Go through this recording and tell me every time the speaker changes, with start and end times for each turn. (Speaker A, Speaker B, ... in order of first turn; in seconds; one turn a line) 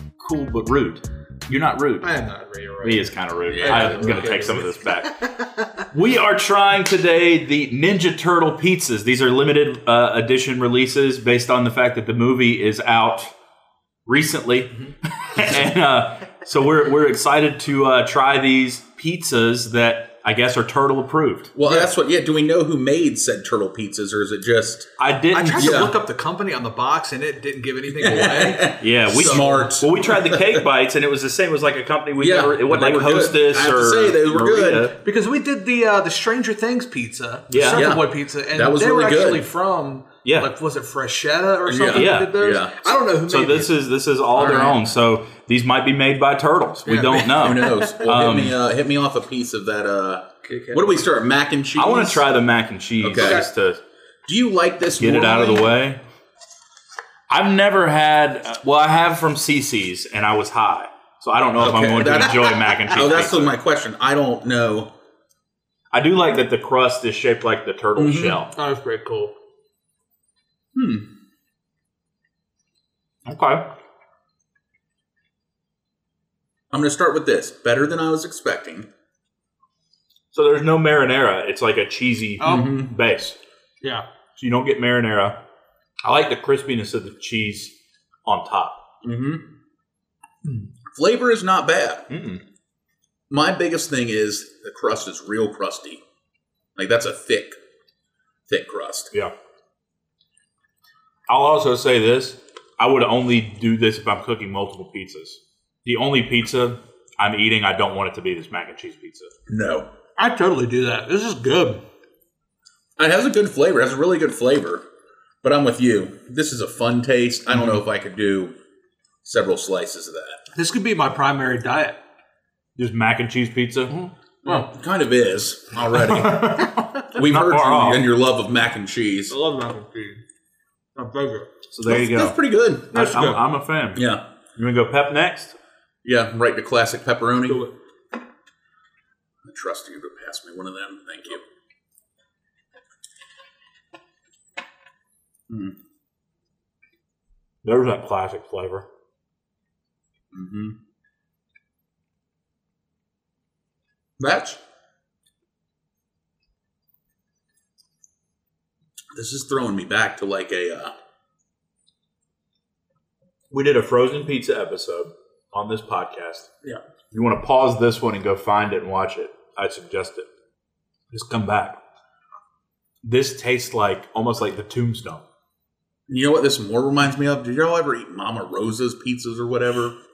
Speaker A: 0.2-2.1
Speaker B: 2.0-4.7
Speaker A: 2.8-5.3
Speaker C: 3.5-4.4
Speaker A: 5.9-13.3
Speaker A: 14.1-21.5
Speaker C: 21.6-24.9
Speaker A: 25.0-25.8
Speaker B: 25.3-29.7
Speaker C: 25.6-25.9
Speaker C: 28.0-30.6
Speaker A: 28.8-35.0
Speaker C: 32.2-34.9
Speaker B: 35.0-43.7
Speaker A: 37.5-38.0
Speaker C: 37.7-39.4
Speaker A: 40.2-40.5
Speaker C: 41.6-42.9
Speaker A: 41.9-42.4
Speaker A: 43.3-48.6
Speaker C: 44.3-44.8
Speaker C: 46.9-52.2
Speaker B: 50.5-51.0
Speaker A: 51.7-53.8
Speaker C: 53.0-53.5
Speaker B: 53.2-53.5
Speaker C: 54.3-55.7
Speaker A: 55.0-56.0
Speaker A: 57.3-63.6
Speaker C: 61.6-64.9
Speaker A: 65.9-68.5
Speaker C: 68.0-68.4
Speaker B: 68.5-69.3
Speaker C: 70.7-71.0
Speaker A: 73.2-73.7
Speaker C: 76.7-78.9
Speaker A: 80.3-83.4
Speaker B: 82.4-82.7
Speaker C: 82.4-82.9
Speaker A: 84.3-85.4
Speaker A: 86.0-87.7
Speaker A: 88.2-88.8
Speaker C: 89.0-89.4
Speaker C: 90.9-92.1
Speaker A: 92.1-92.4
Speaker C: 93.3-96.0
Speaker C: 96.8-97.6
Speaker C: 98.5-99.1
Speaker A: 101.3-109.3
Speaker C: 109.5-109.9
Speaker B: 110.2-111.8
Speaker C: 113.0-114.8
Speaker C: 115.4-118.5
Speaker C: 119.2-120.4
Speaker B: 120.5-122.0
Speaker A: 122.8-124.0
Speaker C: 124.4-129.3
Speaker A: 126.3-128.0
Speaker B: 129.3-130.2
Speaker B: 130.9-131.5
Speaker A: 131.7-132.3
Speaker C: 131.8-132.9
Speaker B: 132.9-133.4
Speaker A: 132.9-135.6
Speaker C: 133.9-134.2
Speaker C: 136.0-137.6
Speaker B: 137.5-137.7
Speaker C: 139.4-141.4
Speaker C: 145.5-145.7
Speaker A: 147.6-148.8
Speaker C: 150.3-150.7
Speaker C: 154.2-154.6
Speaker C: 159.1-160.9
Speaker A: 163.5-166.5
Speaker A: 167.1-170.3
Speaker A: 171.1-171.8
Speaker A: 173.0-175.2
Speaker C: 176.1-179.9